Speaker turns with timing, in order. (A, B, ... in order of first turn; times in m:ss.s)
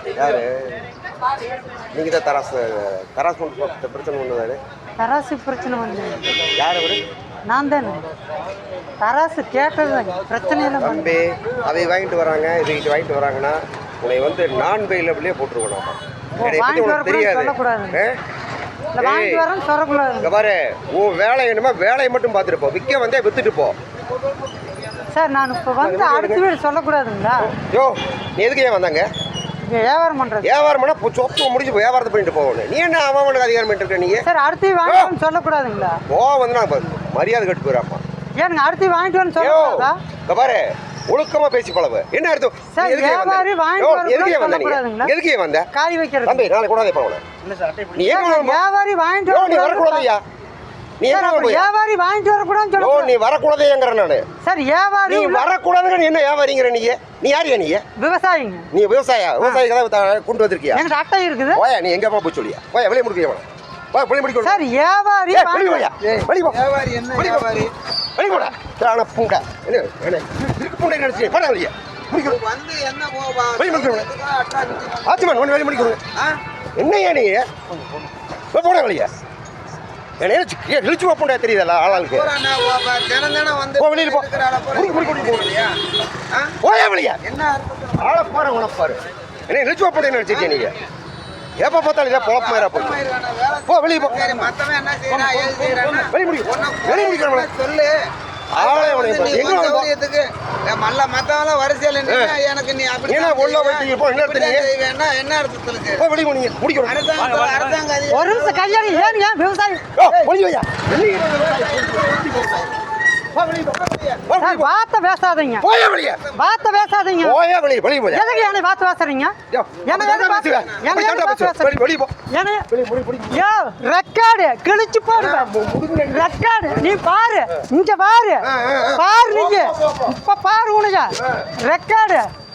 0:00.2-0:00.8 A
0:01.9-0:04.6 A
0:05.0-0:06.3 B
0:06.5-0:07.0 A
0:07.4-0:08.0 B
0:09.0-0:11.1 B
0:10.8-0:18.2 A
0:16.4-0:18.0 B
0:19.0-0:20.3 B
0:19.0-0:19.4 A
0:20.2-0:23.8 A
0:25.1-0:27.5 B
0:25.8-0:26.4 A
0:27.4-0:29.0 A
0:29.6-0:30.5 B
0:30.4-0:34.2 A
0:34.2-0:36.0 B
0:34.8-0:35.1 A
0:36.1-0:38.0 A
0:38.4-0:40.0 B
0:39.4-0:45.7 A
0:42.7-0:45.1 B
0:45.7-0:46.5 B
0:46.2-0:47.2 A
0:47.9-0:48.6 A
0:47.9-0:50.1 B
0:49.3-0:50.2 A
0:51.0-0:51.7 A
0:51.1-0:53.1 B
0:52.8-0:54.2 A
0:54.4-0:55.5 B
0:55.1-0:57.8 A
0:58.0-0:58.7 B
0:58.7-1:00.8 A
1:00.7-1:01.6 B
1:01.5-1:04.6 A
1:04.4-1:05.9 B
1:05.3-1:06.6 A
1:06.0-1:07.7 C
1:07.1-1:07.6 A
1:08.2-1:12.4 A
1:12.1-1:16.4 C
1:13.6-1:14.1 A
1:15.0-1:16.0 A
1:16.8-1:17.5 A
1:18.5-1:19.1 A
1:20.2-1:22.3 A
1:22.0-1:25.8 C
1:23.8-1:25.5 A
1:26.3-1:26.6 C
1:26.6-1:27.2 A
1:27.2-1:28.1 C
1:28.0-1:30.7 A
1:30.3-1:30.7 C
1:31.6-1:33.0 A
1:32.2-1:46.1 C
1:33.6-1:34.5 A
1:35.2-1:37.5 A
1:38.5-1:39.9 A
1:42.1-1:42.4 A
1:43.1-1:44.7 A
1:46.0-1:47.0 A
1:46.8-1:49.2 C
1:48.1-1:49.8 B
1:50.0-1:52.6 A
1:51.4-1:52.8 C
1:53.4-1:53.7 A
1:53.5-1:54.2 C
1:54.2-1:54.7 A
1:54.3-1:55.7 B
1:55.6-1:56.2 A
1:56.3-1:57.4 B
1:57.2-1:58.4 A
1:58.1-2:02.7 B
1:59.5-2:02.1 A
2:02.7-2:03.4 A
2:03.3-2:05.5 B
2:05.1-2:06.3 A
2:06.1-2:12.3 B
2:08.4-2:10.1 A